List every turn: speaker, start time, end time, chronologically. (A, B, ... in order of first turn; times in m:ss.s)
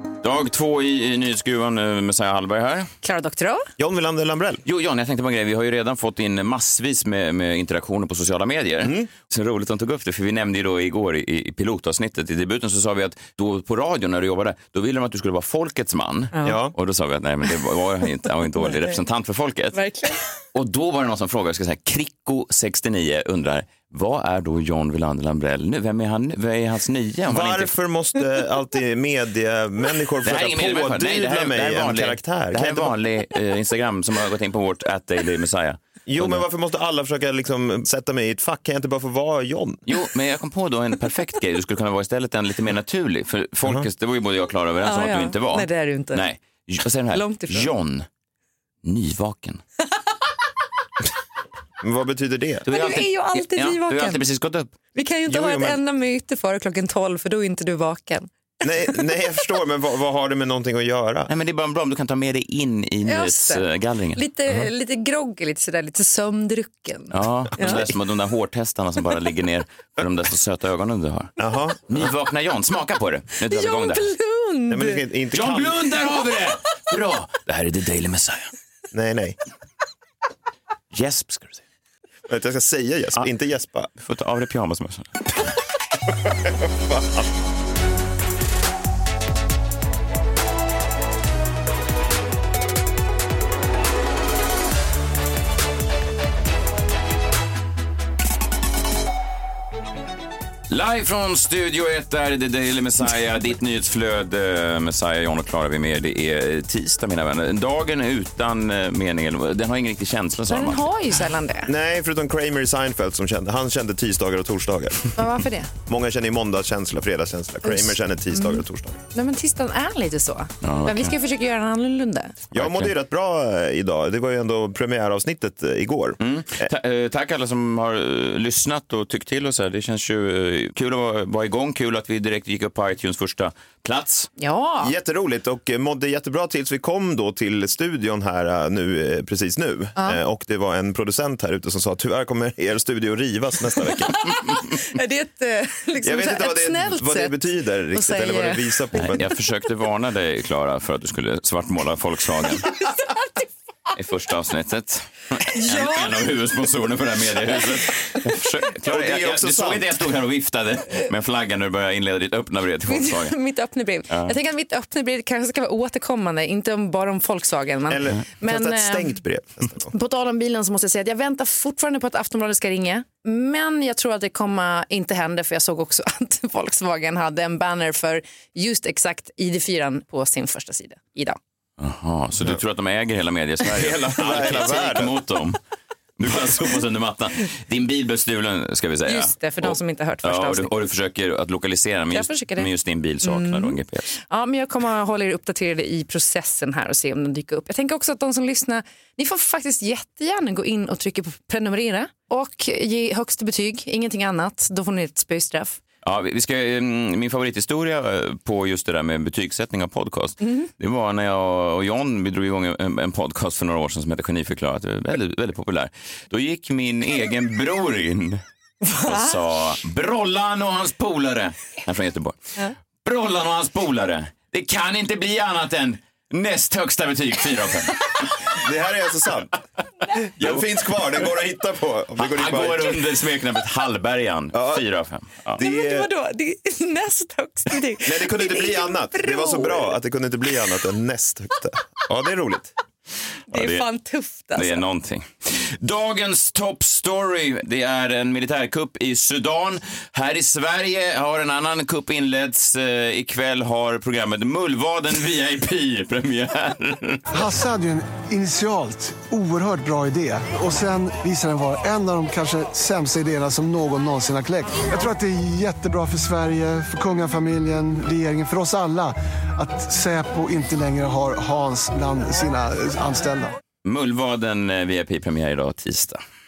0:00.2-0:02.9 A
0:03.0-0:03.7 B
0:03.8-0:04.6 C
0:04.6-0:19.8 A
0:08.8-0:09.1 C
0:16.3-0:16.6 B
0:16.4-0:16.7 C
0:18.7-0:19.0 B
0:19.7-0:20.3 B
0:20.5-0:27.8 A
0:27.3-0:32.9 C
0:30.2-0:36.4 A
0:36.1-0:39.8 C
0:39.9-0:48.1 A
0:44.8-0:46.3 B
0:47.1-0:47.7 B
0:48.8-0:49.6 A
0:51.8-0:52.6 C
0:52.7-0:54.7 A
0:52.7-0:54.2 B
0:55.0-0:58.3 B
0:55.3-0:55.8 C
0:58.6-1:01.3 C
1:01.3-1:04.2 A
1:03.1-1:03.6 B
1:04.2-1:07.8 B
1:07.1-1:11.3 A
1:11.4-1:12.0 C
1:11.9-1:14.0 A
1:13.5-1:15.0 B
1:14.7-1:16.0 C
1:15.3-1:18.5 A
1:18.9-1:19.4 C
1:20.9-1:21.6 A
1:22.3-1:23.9 C
1:24.0-1:25.2 A
1:26.9-1:27.2 C
1:40.7-1:50.8 A
1:50.5-1:51.7 B
1:51.7-1:55.1 C
1:55.2-1:55.7 B
1:55.9-1:59.0 C
1:57.6-2:02.3 B
2:00.6-2:01.1 A
2:02.5-2:06.7 C
2:02.6-2:02.9 A
2:06.2-2:14.3 A
2:14.4-2:14.9 B
2:14.8-2:24.7 C
2:24.8-2:27.4 B
2:26.0-2:29.3 C
2:27.9-2:28.6 B
2:29.0-2:32.7 A
2:32.8-2:33.1 B
2:34.0-2:43.4 A
2:35.5-2:36.1 B
2:38.8-2:40.0 C
2:42.9-2:49.2 B
2:47.9-2:49.9 C
2:49.9-3:01.4 B
3:01.8-3:05.6 A
3:03.6-3:05.1 C
3:06.2-3:14.1 A
3:09.1-3:10.7 B
3:12.1-3:12.7 B
3:13.2-3:25.8 B
3:26.0-3:38.4 A
3:38.9-3:39.4 B
3:39.0-3:48.1 A
3:48.5-3:49.5 C
3:50.4-3:51.3 A
3:50.4-3:53.1 C
3:52.2-3:55.6 A
3:54.6-3:54.8 C
3:55.5-3:56.1 C
3:55.6-3:59.9 B
3:58.0-4:02.7 C
4:03.5-4:04.8 B
4:03.5-4:03.8 A
4:04.6-4:17.2 A
4:17.3-4:33.6 D
4:33.8-4:36.2 A